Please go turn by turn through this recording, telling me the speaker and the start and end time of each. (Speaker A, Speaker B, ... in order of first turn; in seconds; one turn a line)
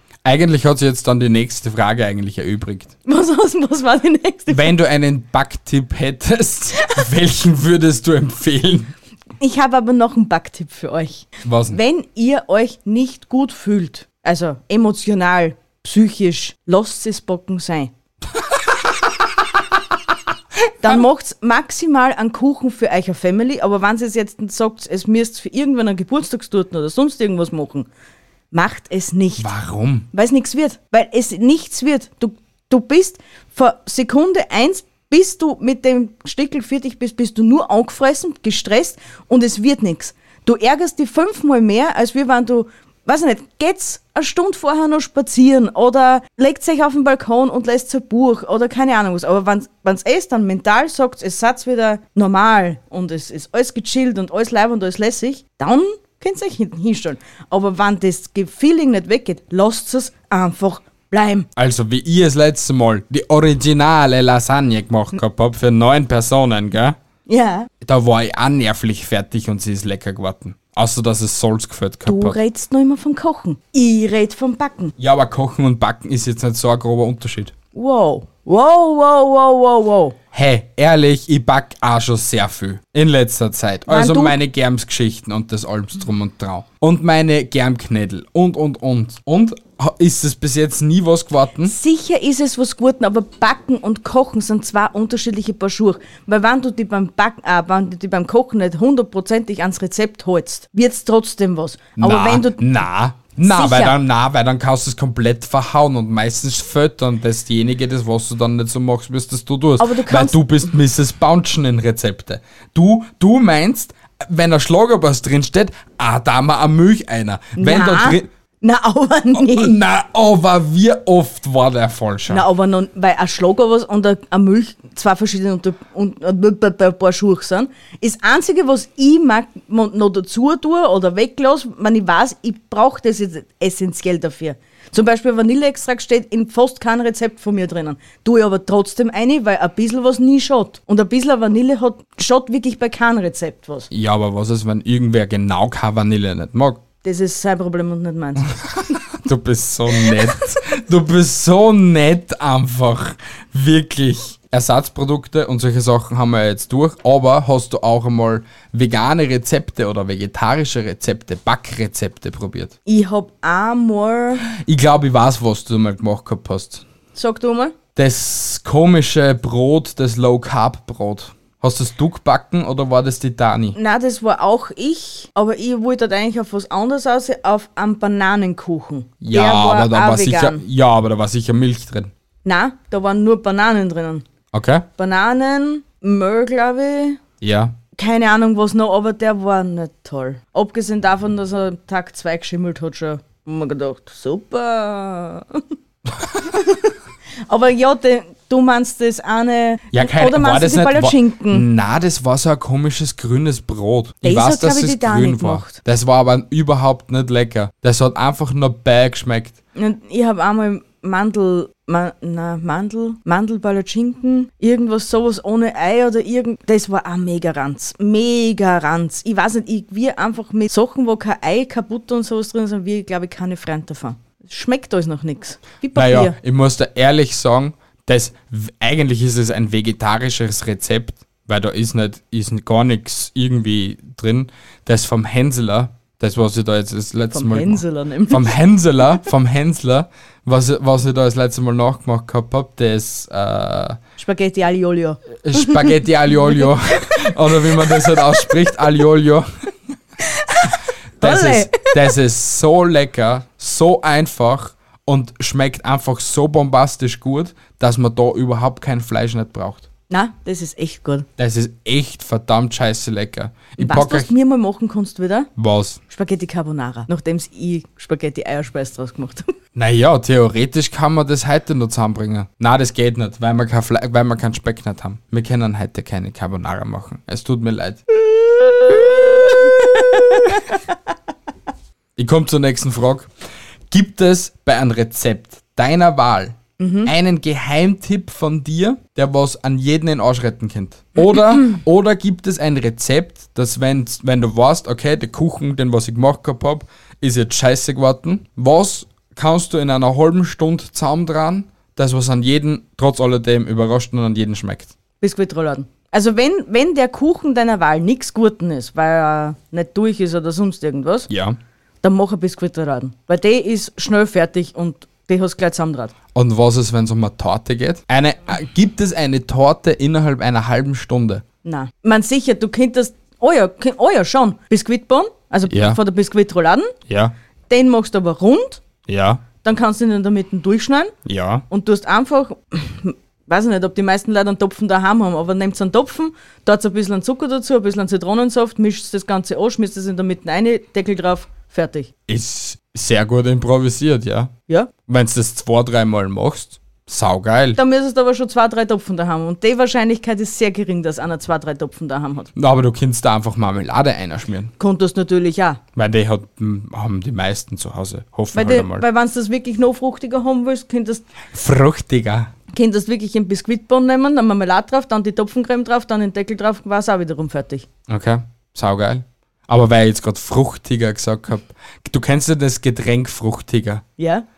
Speaker A: 0.2-2.9
Speaker B: 3.1-4.7
Speaker A: 4.5-8.9
Speaker B: 6.8-7.0
Speaker B: 9.4-17.9
Speaker A: 11.4-11.8
Speaker B: 20.8-27.9
Speaker B: 28.5-29.5
Speaker A: 29.4-30.1
Speaker B: 30.1-61.5
Speaker A: 61.6-67.0
Speaker B: 67.3-67.7
Speaker A: 67.8-72.4
Speaker B: 72.1-74.9
Speaker A: 75.0-77.5
Speaker B: 77.7-80.2
Speaker A: 80.3-91.8
Speaker B: 83.9-84.4
Speaker B: 91.7-102.6
Speaker A: 102.0-118.3
Speaker B: 103.4-104.0
Speaker B: 109.8-110.4
Speaker B: 117.6-119.8
Speaker A: 119.3-122.5
Speaker B: 122.3-143.9
Speaker A: 143.9-146.8
Speaker B: 147.0-148.8
Speaker A: 148.9-162.7
Speaker B: 162.9-164.4
Speaker A: 164.5-166.8
Speaker B: 167.2-167.7
Speaker A: 168.0-173.8
Speaker B: 173.8-180.6
Speaker A: 179.2-182.1
Speaker B: 182.4-184.2
Speaker A: 184.5-184.9
Speaker B: 185.0-187.2
Speaker A: 187.4-187.8
Speaker B: 188.0-195.6
Speaker B: 196.4-196.9
Speaker B: 197.5-201.7
Speaker A: 199.9-209.6
Speaker B: 204.2-205.8
Speaker B: 209.8-226.4
Speaker A: 225.9-244.0
Speaker B: 237.3-238.6
Speaker B: 244.2-248.7
Speaker A: 245.4-249.5
Speaker B: 250.2-252.1
Speaker A: 251.2-259.9
Speaker B: 260.1-261.3
Speaker A: 261.4-264.3
Speaker B: 263.8-265.5
Speaker A: 265.6-266.0
Speaker B: 266.1-269.5
Speaker A: 269.8-278.0
Speaker B: 278.5-280.8
Speaker A: 278.9-280.6
Speaker A: 282.2-283.3
Speaker A: 283.9-304.9
Speaker B: 286.8-287.1
Speaker B: 305.2-311.3
Speaker A: 311.3-311.6
Speaker B: 312.0-316.1
Speaker A: 316.4-321.4
Speaker B: 321.6-326.9
Speaker A: 325.7-326.0
Speaker A: 327.1-327.3
Speaker B: 327.7-328.8
Speaker A: 329.1-329.4
Speaker B: 329.6-331.1
Speaker A: 331.2-331.6
Speaker B: 331.7-342.1
Speaker A: 342.3-344.5
Speaker A: 345.1-347.8
Speaker B: 347.8-352.5
Speaker A: 352.6-354.7
Speaker B: 354.8-355.8
Speaker A: 356.0-359.1
Speaker B: 358.5-361.2
Speaker A: 361.5-362.5
Speaker B: 362.7-367.9
Speaker A: 368.1-374.0
Speaker B: 374.2-374.4